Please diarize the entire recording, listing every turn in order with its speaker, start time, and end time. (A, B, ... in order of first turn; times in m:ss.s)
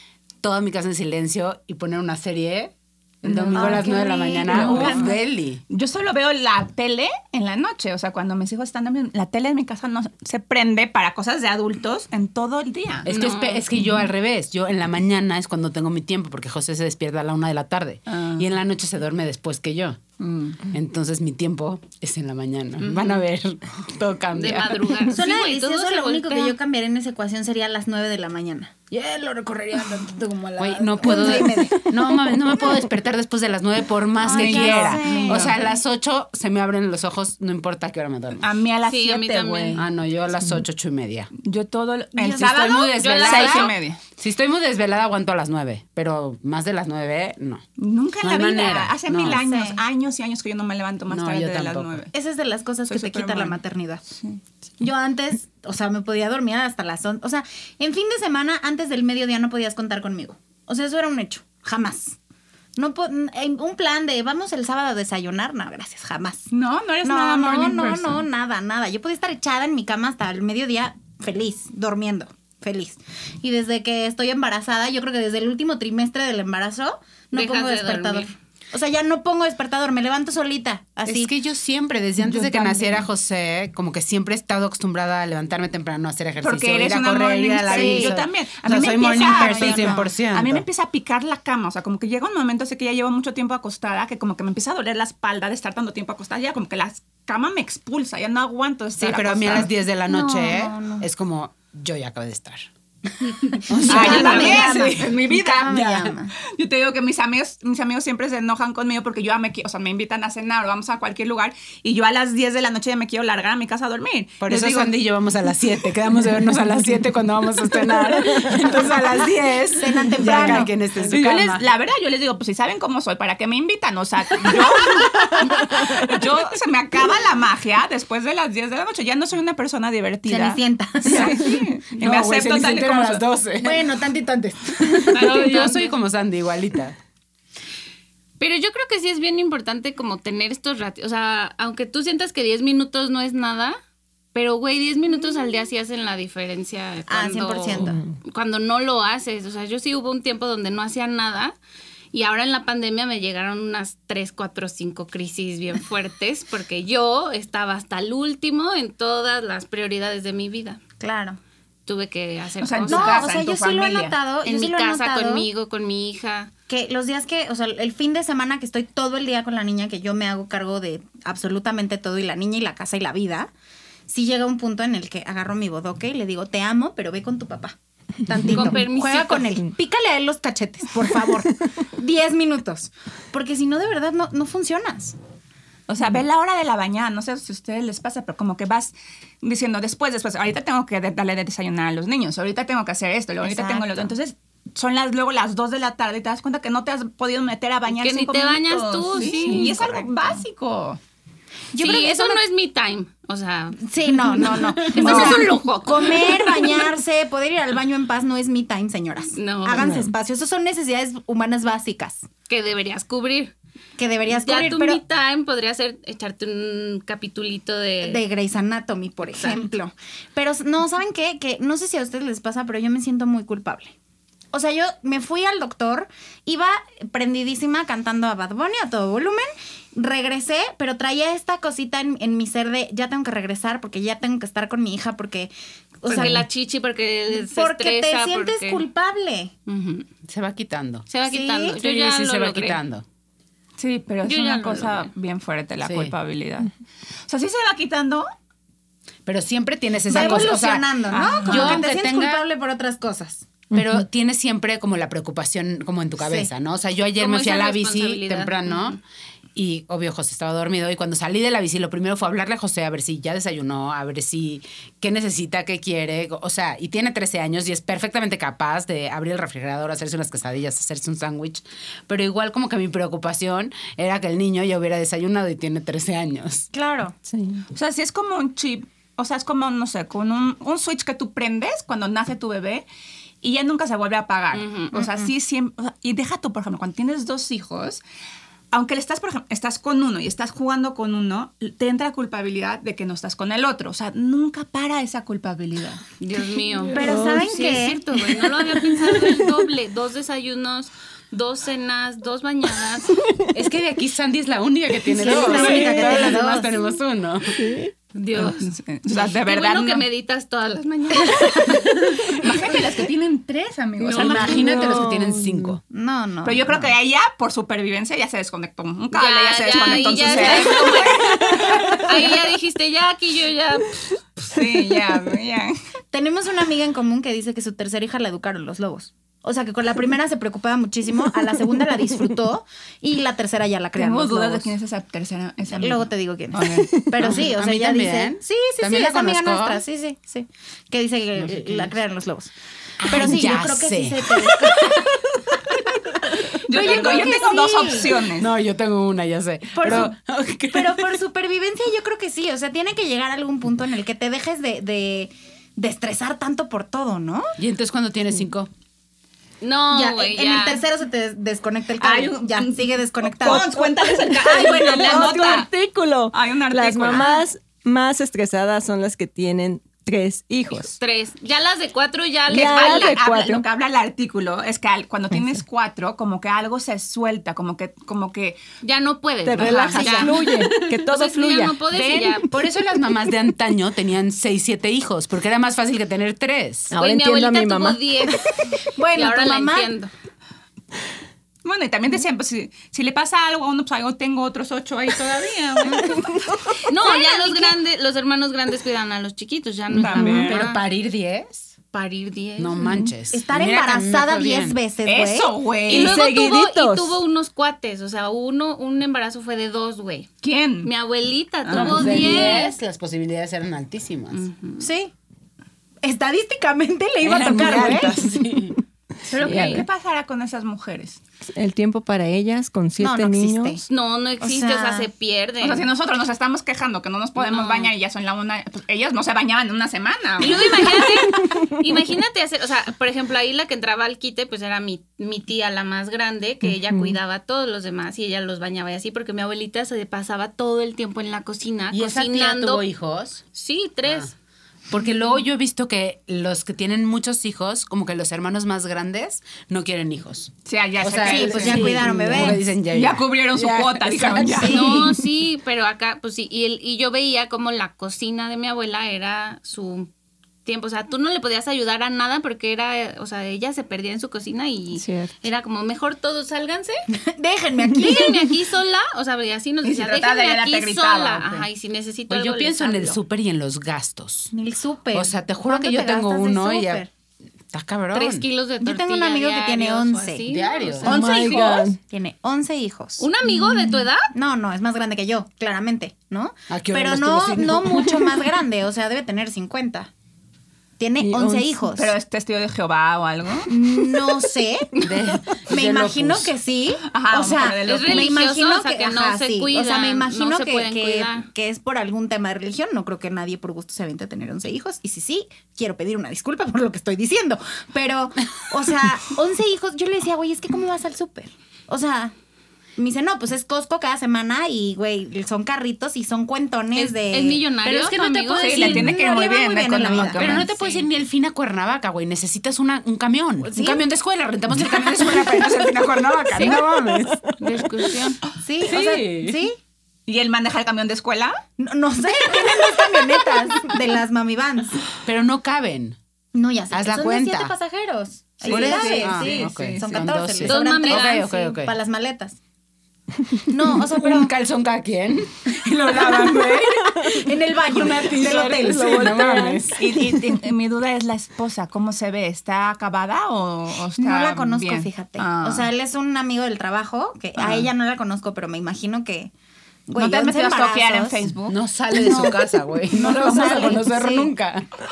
0:00.4-0:05.6 A
0:03.2-0:05.2 B
0:03.5-0:05.1 C
0:05.7-0:13.1 B
0:13.0-0:20.0 A
0:13.1-0:13.7 D
0:18.1-0:18.5 B
0:20.2-0:20.6 B
0:20.7-0:25.0 A
0:24.3-0:26.6 D
0:25.1-0:31.9 C
0:30.6-0:38.5 A
0:34.2-0:35.7 C
0:34.2-0:35.6 B
0:38.4-0:39.8 B
0:38.9-0:39.8 D
0:39.8-0:41.3 A
0:41.4-0:44.0 B
0:42.2-0:42.6 C
0:42.3-0:47.6 A
0:42.9-0:43.7 D
0:47.8-0:52.1 B
0:48.2-0:49.4 A
0:49.3-0:49.8 C
0:51.1-0:52.0 A
0:52.1-0:54.0 C
0:52.9-0:53.6 B
0:54.2-0:54.4 B
0:54.8-1:02.2 C
1:02.8-1:06.5 C
1:06.5-1:08.2 B
1:07.0-1:21.3 C
1:17.3-1:18.3 D
1:21.0-1:30.6 A
1:22.2-1:23.0 B
1:26.4-1:39.7 B
1:27.7-1:28.2 C
1:28.7-1:30.1 C
1:39.0-1:42.7 A
1:40.1-1:41.0 C
1:43.5-1:46.3 C
1:43.6-1:46.2 A
1:43.8-1:45.8 B
1:46.4-1:54.9 B
1:54.4-2:01.6 A
1:59.8-2:00.7 C
2:01.0-2:13.2 B
2:10.3-2:11.4 C
2:12.0-2:17.0 A
2:13.6-2:14.6 C
2:15.1-2:15.9 D
2:18.4-2:23.8 D
2:24.3-2:31.6 D
2:27.1-2:28.0 C
2:27.8-2:28.0 E
2:32.1-2:40.8 D
2:41.0-2:41.4 C
2:41.9-2:43.3 D
2:42.6-2:44.2 B
2:42.9-2:45.5 C
2:44.4-2:46.5 D
2:46.7-2:53.5 C
2:54.1-2:57.8 C
2:58.2-3:05.2 C
2:58.3-2:58.8 E
2:58.5-2:59.5 D
3:05.9-3:21.0 B
3:13.4-3:14.1 C
3:17.9-3:20.1 D
3:19.4-3:19.6 E
3:21.7-3:22.4 C
3:21.8-3:23.9 D
3:23.8-3:32.3 C
3:24.4-3:26.7 D
3:24.9-3:25.5 B
3:29.4-3:30.0 D
3:29.8-3:30.1 E
3:32.5-3:33.5 D
3:34.0-3:35.0 C
3:34.3-3:38.2 D
3:38.0-3:43.9 C
3:39.4-3:39.6 D
3:44.5-3:55.5 C
3:56.0-3:56.4 C
3:56.1-3:58.8 D
3:57.3-3:59.5 C
3:59.7-4:00.1 D
4:00.3-4:01.1 A
4:01.1-4:02.8 D
4:01.2-4:01.8 C
4:01.8-4:03.0 A
4:03.8-4:06.7 B
4:04.2-4:05.1 D
4:05.8-4:06.1 A
4:07.3-4:08.3 B
4:09.2-4:10.9 A
4:10.1-4:13.5 C
4:10.1-4:11.8 B
4:11.4-4:12.4 A
4:13.7-4:14.0 E
4:13.7-4:19.0 A
4:16.2-4:16.5 C
4:17.2-4:19.0 D
4:19.6-4:36.7 A
4:36.7-4:37.2 C
4:37.3-4:37.6 E
4:37.7-4:42.9 B
4:43.4-4:48.0 B
4:44.5-4:45.0 D
4:44.9-4:45.3 C
4:48.7-4:56.0 B
4:56.2-5:03.2 D
4:56.9-4:57.5 E
4:56.9-4:58.0 C
4:58.8-4:59.6 E
5:03.5-5:07.6 A
5:05.1-5:06.8 C
5:05.4-5:06.4 E
5:07.6-5:07.9 E
5:08.1-5:08.8 D
5:08.4-5:10.0 B
5:09.3-5:11.8 D
5:12.3-5:15.0 B
5:14.0-5:15.8 A
5:14.2-5:15.8 E
5:15.9-5:16.9 C
5:16.4-5:22.4 B
5:19.1-5:24.6 D
5:20.5-5:20.8 C
5:24.5-5:25.8 B
5:26.1-5:34.7 C
5:34.0-5:36.9 B
5:35.7-5:45.8 C
5:37.2-5:39.8 A
5:41.4-5:41.9 A
5:43.0-5:43.4 B
5:43.1-5:44.6 A
5:46.4-5:48.1 C
5:46.6-5:48.6 B
5:48.3-5:51.2 A
5:49.7-5:50.1 C
5:50.7-5:57.5 C
5:57.6-5:58.7 A
5:59.6-6:00.8 D
5:59.9-6:05.3 C
6:02.0-6:05.7 B
6:04.5-6:10.9 E
6:06.3-6:07.3 B
6:10.8-6:13.2 D
6:12.5-6:13.6 E
6:12.5-6:18.6 B
6:18.8-6:20.4 D
6:19.4-6:21.8 E
6:19.6-6:20.6 B
6:20.0-6:20.3 C
6:21.0-6:22.5 D
6:21.9-6:26.9 A
6:26.9-6:28.7 E
6:26.9-6:30.1 D
6:28.9-6:29.9 C
6:31.6-6:36.7 B
6:36.9-6:40.8 D
6:36.9-6:37.8 C
6:40.0-6:40.6 B
6:40.0-6:41.7 A
6:41.9-6:43.0 D
6:42.6-6:44.8 A
6:43.3-6:45.6 C
6:45.0-6:46.2 B
6:45.9-6:47.2 E
6:45.9-6:50.3 D
6:50.4-6:50.9 B
6:50.8-6:52.8 D
6:51.6-6:52.2 B
6:51.7-6:54.4 A
6:52.2-6:52.7 C
6:54.3-6:54.9 D
6:54.8-6:55.1 C
6:56.0-6:58.2 C
6:57.2-6:58.8 E
6:57.3-6:58.8 A
6:59.3-7:01.2 B
6:59.4-6:59.9 E
6:59.5-6:59.8 D
7:01.6-7:03.8 E
7:03.0-7:03.8 C
7:03.9-7:05.9 D
7:04.4-7:05.1 C
7:05.6-7:10.8 B
7:07.4-7:07.9 D
7:10.4-7:22.8 D
7:11.4-7:11.8 E
7:16.6-7:17.2 E
7:21.9-7:23.4 A
7:23.5-7:24.3 D
7:24.9-7:35.1 A
7:30.6-7:35.0 B
7:31.2-7:32.6 C
7:34.6-7:34.9 C
7:34.7-7:40.1 D
7:40.6-7:47.1 D
7:44.9-7:45.3 E
7:47.2-7:48.6 C
7:47.9-7:53.2 D
7:49.8-7:51.7 B
7:52.3-7:54.5 A
7:54.5-7:57.1 C
7:55.1-7:57.0 A
7:57.7-7:58.4 A
7:58.1-8:01.9 D
7:58.8-8:00.5 C
8:00.5-8:01.2 A
8:01.0-8:02.0 E
8:01.1-8:03.6 C
8:03.2-8:04.3 D
8:04.3-8:10.1 C
8:06.7-8:08.2 A
8:11.0-8:12.1 C
8:11.2-8:11.8 E
8:11.9-8:13.7 B
8:13.7-8:32.4 C
8:13.8-8:14.4 E
8:15.0-8:16.6 A
8:17.1-8:18.5 B
8:17.8-8:21.5 D
8:33.0-8:40.7 C
8:36.9-8:39.1 D
8:38.5-8:40.7 B
8:40.3-8:47.4 A
8:43.6-8:44.0 C
8:46.6-8:48.1 E
8:47.6-8:48.4 D
8:48.6-8:49.8 C
8:48.8-8:49.6 A
8:50.3-8:51.6 B
8:51.8-8:55.0 C
8:55.2-8:56.2 A
8:56.5-9:02.6 C
8:56.9-8:57.7 A
8:58.6-9:00.1 B
8:58.6-9:01.9 A
9:00.6-9:01.7 D
9:03.7-9:04.5 C
9:03.9-9:10.0 A
9:06.2-9:09.4 C
9:08.6-9:10.4 E
9:10.0-9:15.9 B
9:14.2-9:19.5 C
9:20.1-9:21.4 C
9:20.2-9:21.8 B
9:21.7-9:24.9 A
9:22.1-9:24.5 C